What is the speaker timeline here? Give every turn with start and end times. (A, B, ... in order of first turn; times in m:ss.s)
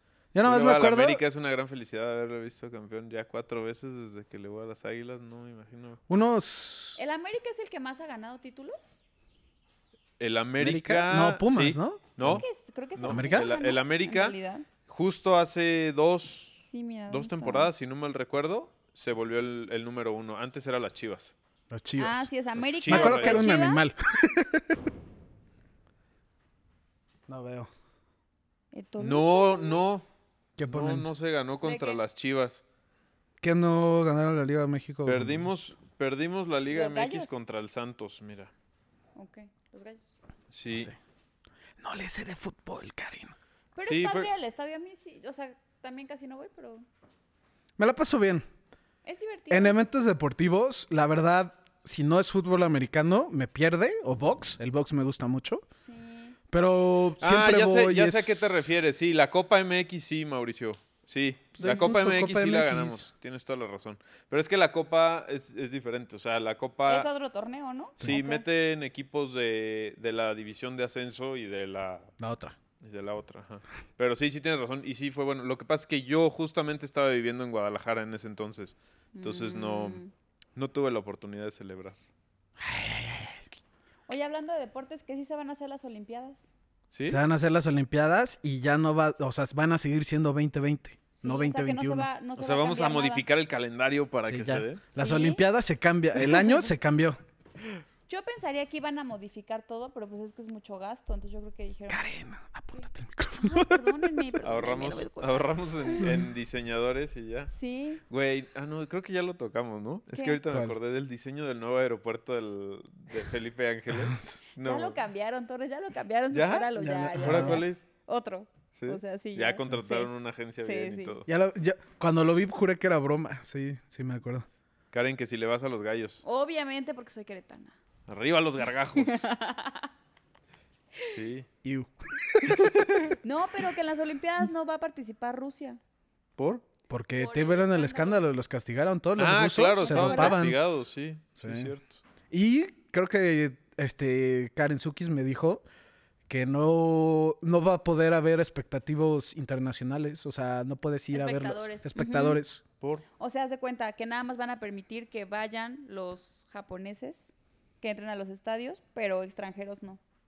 0:00.3-0:01.2 A
0:00.4-0:06.0 B
0:06.1-0:07.0 A
0:07.0-0:08.9 C
0:10.2-0:12.4 B
0:10.6-0:12.4 A
0:12.2-0:14.6 C
0:13.0-0:14.4 B
0:13.1-0:13.5 A
0:14.9-0:21.3 B
0:16.7-0:17.7 C
0:21.7-0:22.3 A
0:22.0-0:24.0 C
0:22.6-0:23.5 B
0:22.8-0:24.8 A
0:27.3-0:27.7 A
0:28.7-0:29.8 C
0:29.0-0:30.0 B
0:30.6-0:31.1 A
0:30.6-0:32.6 B
0:31.6-0:32.0 C
0:33.4-0:35.5 A
0:35.0-0:38.5 B
0:36.7-0:37.3 C
0:39.2-0:40.1 C
0:40.5-0:40.9 B
0:41.8-0:43.3 A
0:43.8-0:46.8 C
0:43.8-0:44.3 B
0:47.8-0:48.4 A
0:49.0-0:49.8 C
0:49.5-0:55.6 A
0:55.8-0:56.4 C
0:56.5-0:58.7 A
0:57.2-1:07.1 B
1:01.6-1:03.1 A
1:06.8-1:08.4 C
1:08.0-1:12.1 B
1:12.2-1:12.6 A
1:12.8-1:20.0 B
1:19.1-1:20.1 C
1:20.6-1:22.0 B
1:22.6-1:23.4 A
1:24.1-1:26.5 C
1:26.9-1:27.2 B
1:27.1-1:32.1 A
1:31.2-1:33.2 C
1:32.4-1:34.8 B
1:34.2-1:37.2 A
1:34.9-1:35.4 C
1:38.1-1:42.0 C
1:41.9-1:44.2 A
1:43.4-1:46.1 C
1:44.4-1:47.5 B
1:46.0-1:46.3 A
1:47.5-1:48.0 C
1:48.1-1:55.0 B
1:50.1-1:50.4 C
1:50.5-1:50.7 A
1:53.9-1:54.3 A
1:54.6-2:01.2 C
1:56.3-1:57.8 B
1:56.7-1:57.6 A
1:58.7-2:01.3 B
2:01.3-2:04.4 A
2:04.9-2:06.2 B
2:06.2-2:07.8 C
2:08.1-2:09.2 B
2:08.9-2:09.9 C
2:11.0-2:11.5 B
2:11.6-2:12.9 A
2:12.5-2:13.0 B
2:13.2-2:15.8 C
2:16.4-2:16.6 B
2:16.9-2:20.6 A
2:17.2-2:18.2 C
2:19.2-2:22.0 B
2:19.8-2:20.4 C
2:21.4-2:21.7 A
2:22.3-2:25.6 A
2:26.3-2:32.6 A
2:31.1-2:32.4 C
2:33.2-2:40.0 C